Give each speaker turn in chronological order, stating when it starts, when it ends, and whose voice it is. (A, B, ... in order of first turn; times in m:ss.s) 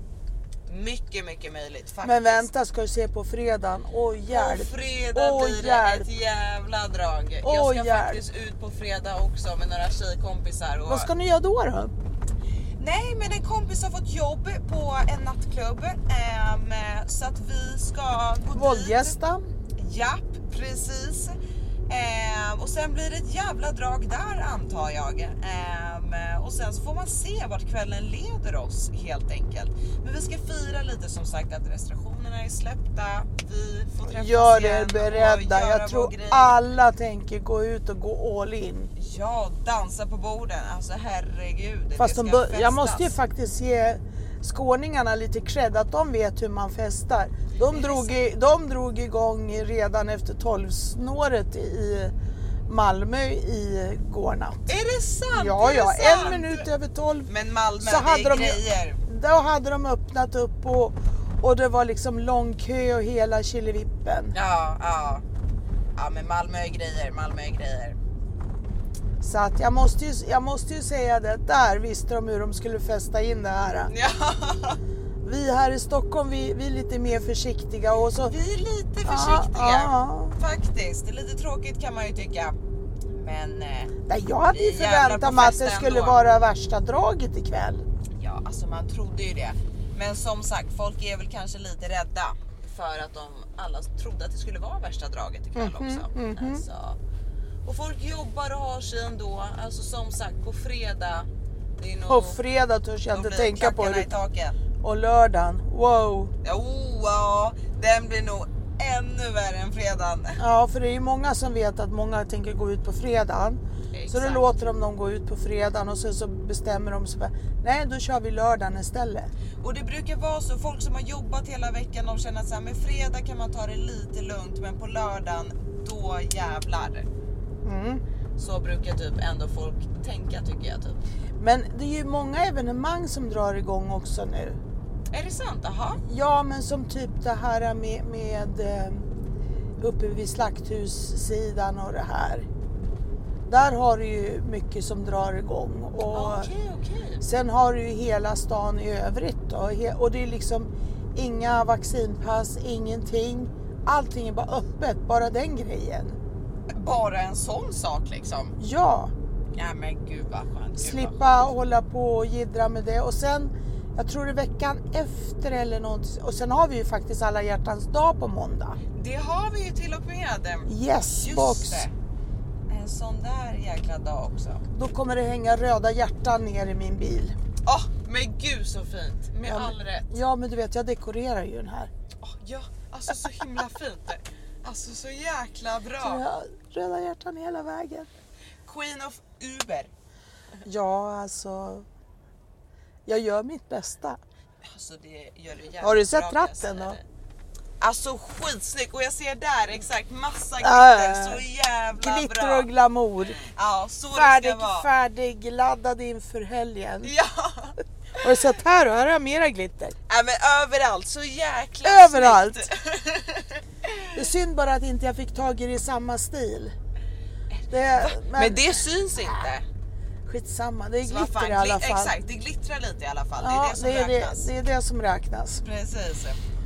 0:00.7-0:02.5 A
0:02.0-0:06.1 B
0:04.3-0:11.1 A
0:07.4-0:08.2 B
0:10.9-0:11.9 B
0:12.8-0:19.2 A
0:18.5-0:19.4 B
0:19.8-0:21.4 A
0:21.9-0:36.6 A
0:34.1-0:38.9 B
0:39.0-0:43.1 A
0:42.0-0:52.1 B
0:47.7-0:48.1 A
0:52.7-0:54.7 B
0:54.6-0:56.7 A
0:55.3-1:04.3 B
0:57.3-0:59.0 A
1:04.3-1:05.2 A
1:06.0-1:08.0 A
1:09.2-1:13.9 B
1:13.9-1:14.8 A
1:15.2-1:18.3 B
1:18.2-1:22.6 A
1:19.0-1:20.4 B
1:23.2-1:23.9 A
1:24.1-1:27.8 B
1:24.5-1:26.2 A
1:28.2-1:37.0 A
1:35.5-1:36.6 B
1:37.6-1:41.3 A
1:41.8-1:42.4 A
1:42.1-1:44.1 B
1:43.1-1:44.6 A
1:44.8-1:46.3 B
1:46.4-1:50.4 A
1:50.4-1:59.3 B
1:53.9-1:54.5 A
1:59.6-2:07.0 A
2:07.6-2:08.0 B
2:08.4-2:11.0 A
2:11.4-2:14.6 B
2:15.1-2:16.0 A
2:16.0-2:19.0 B
2:19.8-2:22.5 B
2:23.5-2:26.5 B
2:26.1-2:27.2 A
2:27.2-2:36.2 B
2:36.7-2:38.6 A
2:38.6-2:39.1 B
2:39.5-2:41.2 A
2:40.8-2:48.8 B
2:48.9-2:51.9 A
2:50.7-2:51.8 B
2:52.7-2:54.6 A
2:54.7-2:57.4 B
2:57.6-3:00.2 A
2:59.4-3:01.9 B
3:02.2-3:06.2 A
3:06.0-3:08.1 B
3:08.6-3:09.9 A
3:10.6-3:11.8 B
3:13.1-3:14.2 B
3:14.6-3:17.0 A
3:15.8-3:17.0 B
3:17.8-3:22.7 A
3:20.6-3:23.4 B
3:23.4-3:24.9 A
3:24.1-3:27.1 B
3:27.0-3:27.8 A
3:28.2-3:29.9 B
3:30.1-3:34.2 A
3:31.8-3:32.7 B
3:34.1-3:36.7 B
3:37.5-3:39.6 A
3:37.7-3:39.4 B
3:40.2-3:42.1 B
3:41.0-3:44.5 A
3:43.4-3:45.6 B
3:45.6-3:46.4 A